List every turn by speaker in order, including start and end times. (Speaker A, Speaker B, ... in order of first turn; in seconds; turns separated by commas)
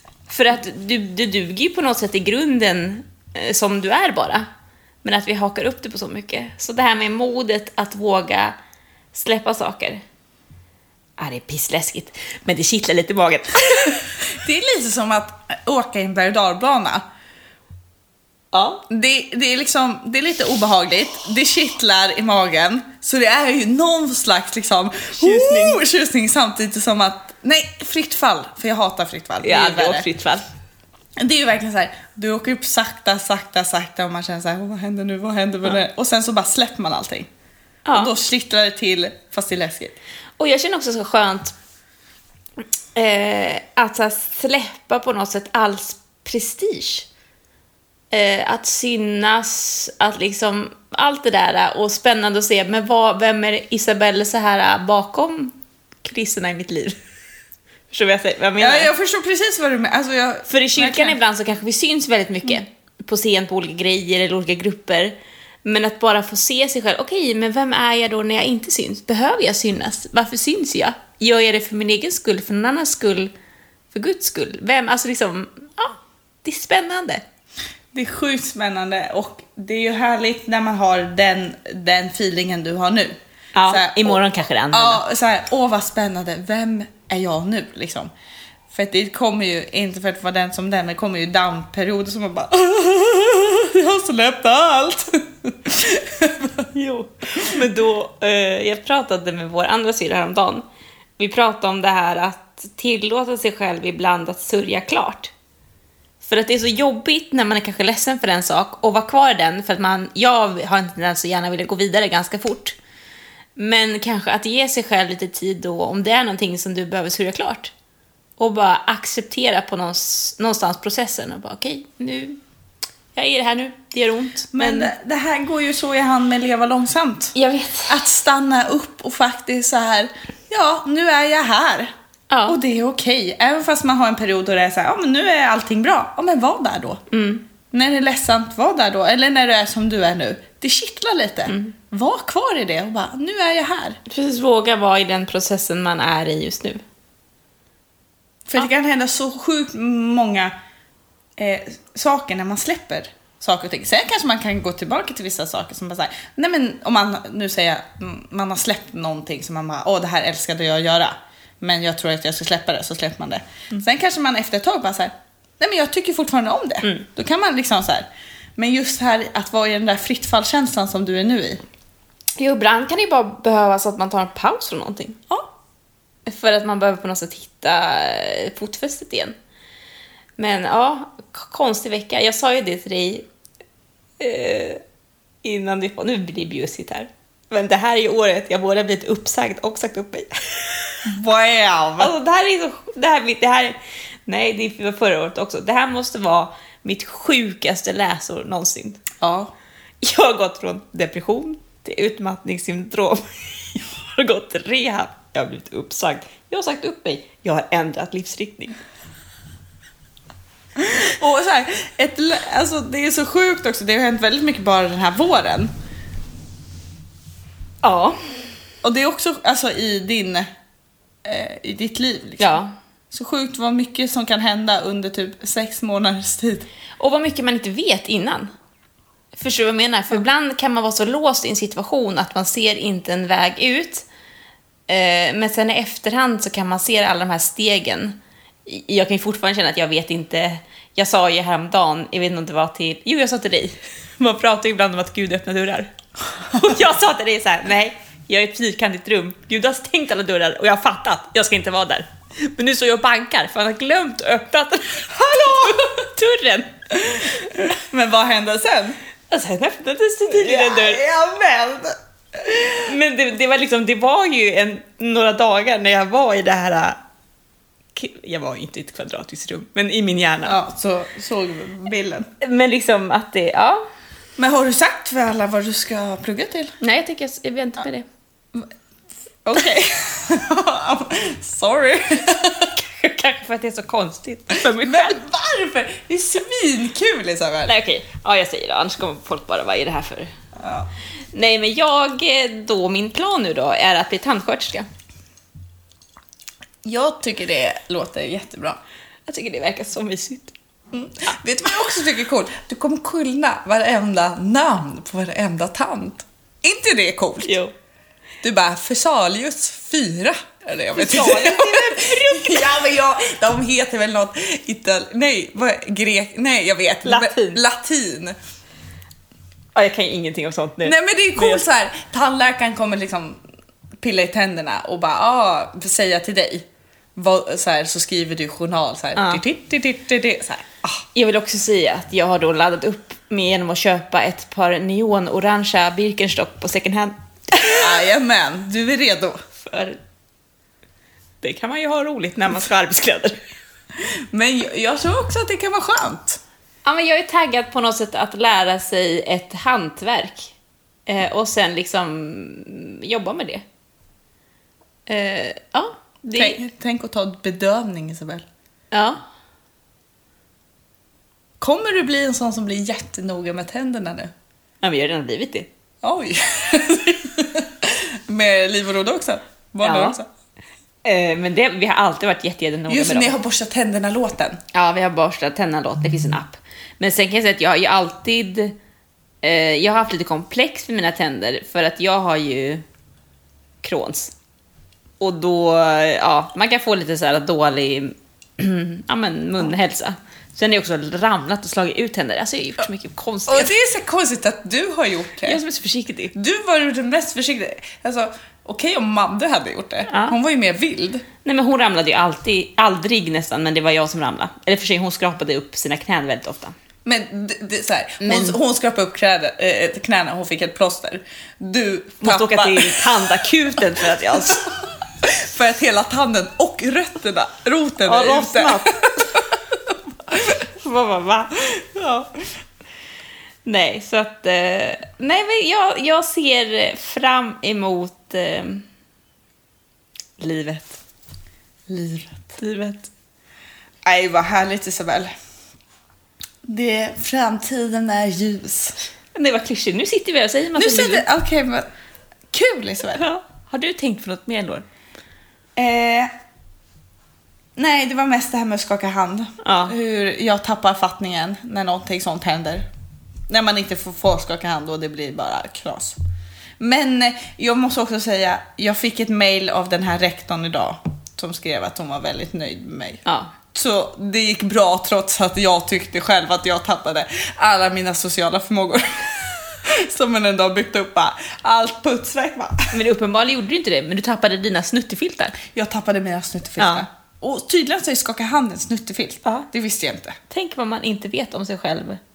Speaker A: 0.3-4.5, Speaker A: 5.0-8.6, Speaker A: 9.1-10.0, Speaker A: 11.2-14.1, Speaker B: 14.2-17.0, Speaker A: 18.5-18.8, Speaker B: 18.9-30.1, Speaker A: 25.2-25.8, Speaker A: 29.4-30.4, Speaker B: 31.2-37.3, Speaker A: 37.9-38.1, Speaker B: 37.9-40.0, Speaker A: 40.4-41.5, Speaker A: 43.0-47.1, Speaker A: 48.1-57.0, Speaker A: 57.9-58.9, Speaker B: 58.6-61.2, Speaker A: 60.5-73.3, Speaker A: 73.9-77.2, Speaker B: 77.9-84.2, Speaker A: 83.5-85.0, Speaker B: 84.7-88.1, Speaker B: 88.7-96.7, Speaker A: 96.7-100.6, Speaker A: 101.2-105.3, Speaker A: 106.2-112.8, Speaker A: 113.6-117.7, Speaker A: 118.4-122.4, Speaker A: 123.2-124.9, Speaker B: 124.5-127.3, Speaker A: 127.3-128.0, Speaker B: 127.9-131.9, Speaker A: 132.3-132.6, Speaker B: 132.5-137.0, Speaker A: 137.1-137.4, Speaker B: 137.7-144.0, Speaker A: 141.5-141.7, Speaker A: 144.1-146.8, Speaker B: 148.5-150.5, Speaker B: 151.4-171.6, Speaker A: 172.4-175.2, Speaker A: 176.3-179.3, Speaker A: 180.4-183.3, Speaker A: 184.2-184.8, Speaker A: 185.4-191.0, Speaker B: 191.1-192.1, Speaker A: 192.0-199.1, Speaker B: 199.2-199.5, Speaker A: 200.0-208.8, Speaker B: 210.8-215.7, Speaker A: 217.8-218.2, Speaker B: 218.8-220.5, Speaker B: 221.2-222.6, Speaker A: 222.4-222.7, Speaker B: 223.1-226.7, Speaker A: 227.0-228.5, Speaker A: 229.3-234.1, Speaker A: 234.9-245.9, Speaker A: 246.5-256.7, Speaker B: 255.1-255.8, Speaker B: 256.9-259.0, Speaker A: 259.3-261.0, Speaker B: 260.3-262.8, Speaker A: 262.7-267.0, Speaker A: 267.9-270.6, Speaker B: 270.4-272.3, Speaker A: 272.4-273.8, Speaker B: 274.4-276.7, Speaker A: 276.8-278.1, Speaker B: 279.4-282.8, Speaker A: 282.8-285.2, Speaker B: 284.6-287.7, Speaker A: 287.7-290.3, Speaker B: 290.6-290.9, Speaker A: 291.3-294.9, Speaker B: 296.8-298.8, Speaker A: 299.3-300.5, Speaker B: 300.9-307.5, Speaker A: 307.4-307.7, Speaker B: 308.4-318.4, Speaker A: 310.9-312.8, Speaker A: 317.1-317.6, Speaker A: 319.8-321.6, Speaker B: 320.8-323.4, Speaker B: 324.0-331.0, Speaker A: 329.2-329.4, Speaker A: 331.1-338.0, Speaker B: 337.6-339.4, Speaker A: 339.6-340.0, Speaker A: 341.4-343.4, Speaker B: 344.0-346.4, Speaker A: 346.9-350.5, Speaker A: 351.1-353.6, Speaker A: 355.1-356.6, Speaker B: 356.4-358.5, Speaker A: 358.9-359.2, Speaker B: 361.6-364.3, Speaker A: 364.8-365.7, Speaker B: 366.0-370.3, Speaker A: 369.8-370.2, Speaker A: 371.0-373.4, Speaker B: 372.9-374.6, Speaker A: 374.7-378.8, Speaker A: 379.4-382.8, Speaker A: 383.8-384.3, Speaker A: 385.2-393.7, Speaker B: 393.5-395.6, Speaker A: 395.4-396.3, Speaker B: 396.3-401.2, Speaker A: 400.1-400.4, Speaker A: 401.4-406.7, Speaker B: 407.1-413.5, Speaker A: 408.2-408.6, Speaker A: 412.2-414.7, Speaker B: 414.3-414.6, Speaker B: 415.2-419.5, Speaker A: 418.1-419.4, Speaker A: 420.5-422.3, Speaker A: 423.7-428.9, Speaker A: 430.4-431.0, Speaker B: 431.9-432.3, Speaker A: 432.1-433.1, Speaker B: 434.1-435.3, Speaker B: 436.7-439.0, Speaker A: 439.4-441.3, Speaker B: 440.8-441.9, Speaker B: 442.5-443.2, Speaker A: 443.1-444.9, Speaker B: 445.8-446.3, Speaker B: 447.8-452.9, Speaker A: 449.6-449.9, Speaker B: 453.5-456.2, Speaker B: 456.8-463.2, Speaker A: 463.2-463.5, Speaker B: 463.7-472.9, Speaker A: 472.9-475.6, Speaker B: 475.6-480.4, Speaker A: 476.8-477.1, Speaker A: 480.5-482.2